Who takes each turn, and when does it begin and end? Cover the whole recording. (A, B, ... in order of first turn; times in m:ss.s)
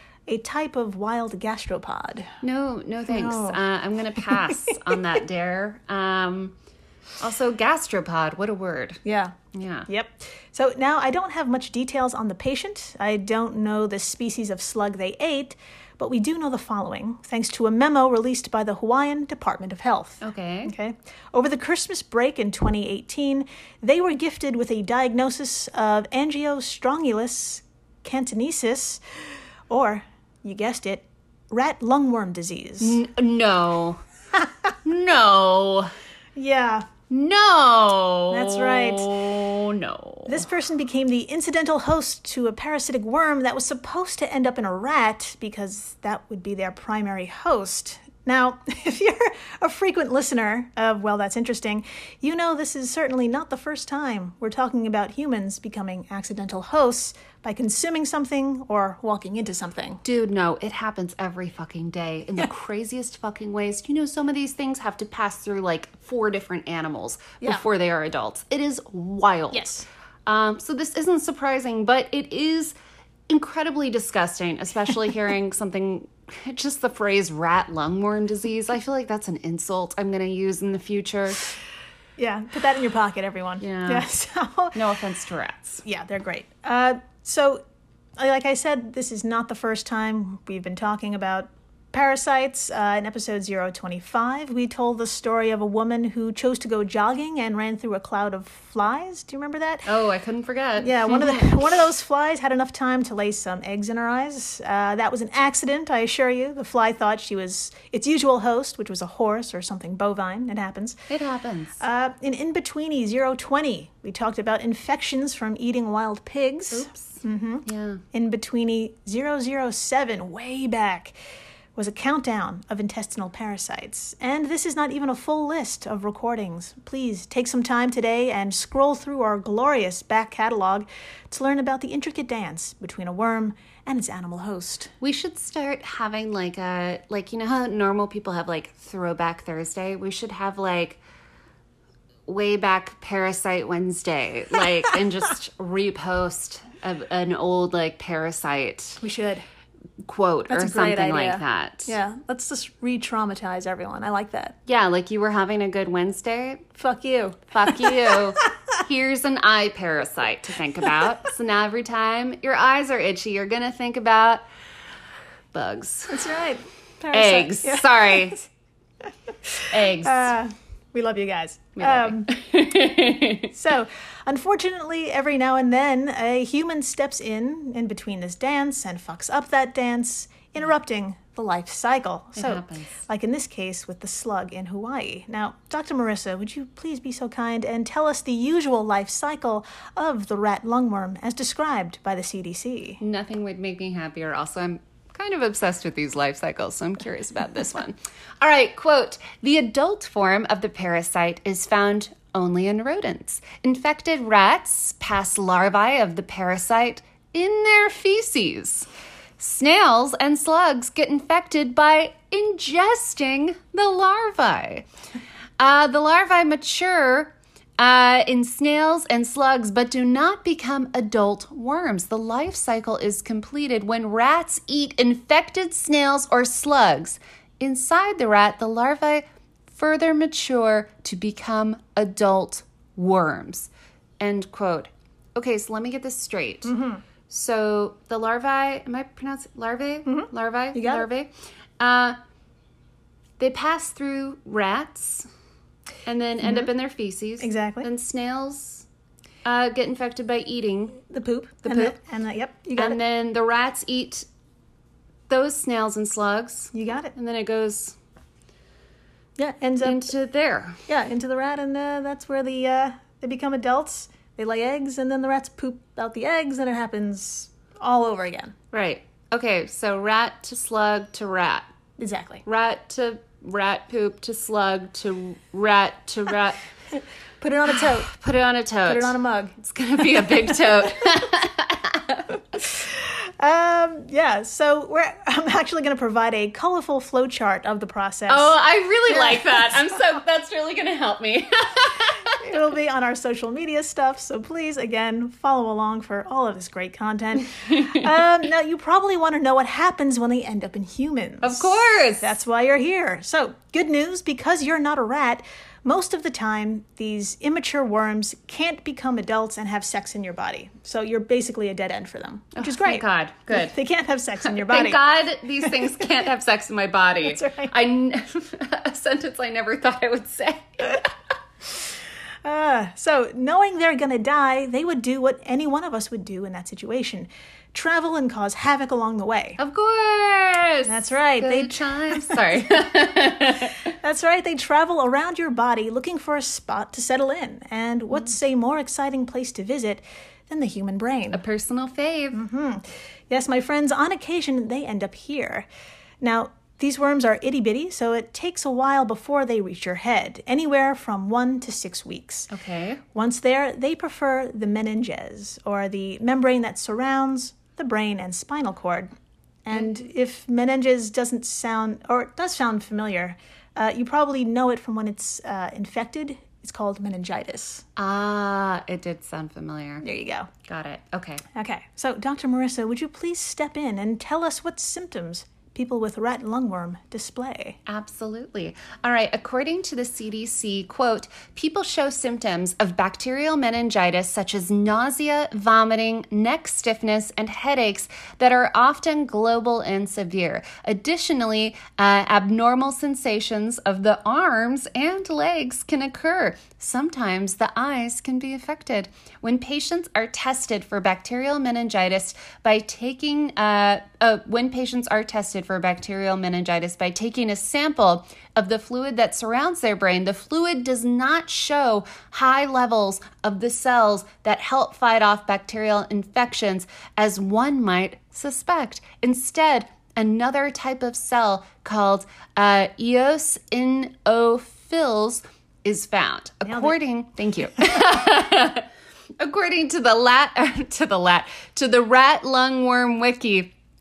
0:00.3-0:02.3 A
0:02.4-0:06.5 B
0:03.1-0:03.6 A
0:04.2-0:04.9 A
0:07.2-0:09.0 B
0:09.0-0:09.4 A
0:09.5-0:09.9 B
0:09.9-0:29.0 A
0:20.2-0:20.7 B
0:29.7-0:33.0 A
0:32.8-0:34.0 B
0:34.8-0:35.9 B
0:36.3-0:36.9 A
0:37.1-0:40.4 B
0:38.3-0:39.1 A
0:40.2-1:00.0 A
1:00.0-1:09.7 B
1:09.5-1:09.8 A
1:10.2-1:12.7 B
1:13.3-1:21.5 B
1:22.2-1:24.8 A
1:23.6-1:24.0 B
1:24.7-1:25.8 B
1:25.8-1:27.6 A
1:28.2-1:39.9 A
1:39.8-1:41.5 B
1:40.8-1:51.0 A
1:51.1-1:51.8 B
1:51.8-2:01.1 A
1:56.7-1:58.0 B
2:01.8-2:14.9 A
2:15.0-2:21.0 B
2:22.3-2:29.0 B
2:29.0-2:29.4 A
2:30.0-2:31.9 B
2:30.5-2:34.5 A
2:34.6-2:36.7 B
2:36.7-2:38.2 A
2:37.5-2:44.4 B
2:45.5-2:46.3 B
2:46.1-2:48.3 A
2:47.1-2:48.4 B
2:49.5-2:52.3 A
2:49.7-2:50.3 B
2:51.8-2:53.5 B
2:53.5-3:13.0 A
3:02.4-3:02.9 B
3:13.0-3:28.9 B
3:29.4-3:34.8 B
3:35.6-3:56.7 B
3:56.6-3:57.0 A
3:57.3-4:02.2 B
4:00.0-4:01.1 A
4:03.4-4:05.3 B
4:06.0-4:08.8 B
4:06.4-4:06.7 A
4:07.4-4:07.9 A
4:09.4-4:11.0 B
4:11.1-4:13.0 A
4:11.6-4:11.9 B
4:12.8-4:14.2 B
4:15.3-4:17.9 B
4:16.7-4:17.1 A
4:19.4-4:20.1 A
4:19.8-4:20.8 B
4:20.9-4:28.5 A
4:28.7-4:31.7 B
4:32.0-4:32.4 A
4:32.4-4:36.6 B
4:37.4-4:38.1 A
4:38.0-4:42.4 B
4:38.9-4:39.5 A
4:40.2-4:40.6 A
4:42.6-4:48.5 A
4:48.3-4:52.4 B
4:49.1-4:49.8 A
4:52.3-5:15.0 A
4:57.7-4:58.0 B
5:01.4-5:02.3 B
5:12.6-5:13.8 B
5:14.4-5:21.0 B
5:15.6-5:16.0 A
5:17.2-5:17.7 A
5:22.4-5:29.6 A
5:29.6-5:33.9 B
5:30.8-5:32.6 A
5:34.0-5:41.4 A
5:41.3-5:42.4 B
5:42.3-5:45.6 A
5:46.2-5:52.5 A
5:52.5-5:53.0 B
5:53.1-5:59.1 A
5:59.6-6:07.8 A
6:08.0-6:10.0 B
6:10.0-6:10.5 A
6:10.6-6:11.4 B
6:11.5-6:17.8 A
6:17.8-7:08.9 B
7:06.6-7:07.0 A
7:09.4-7:13.7 B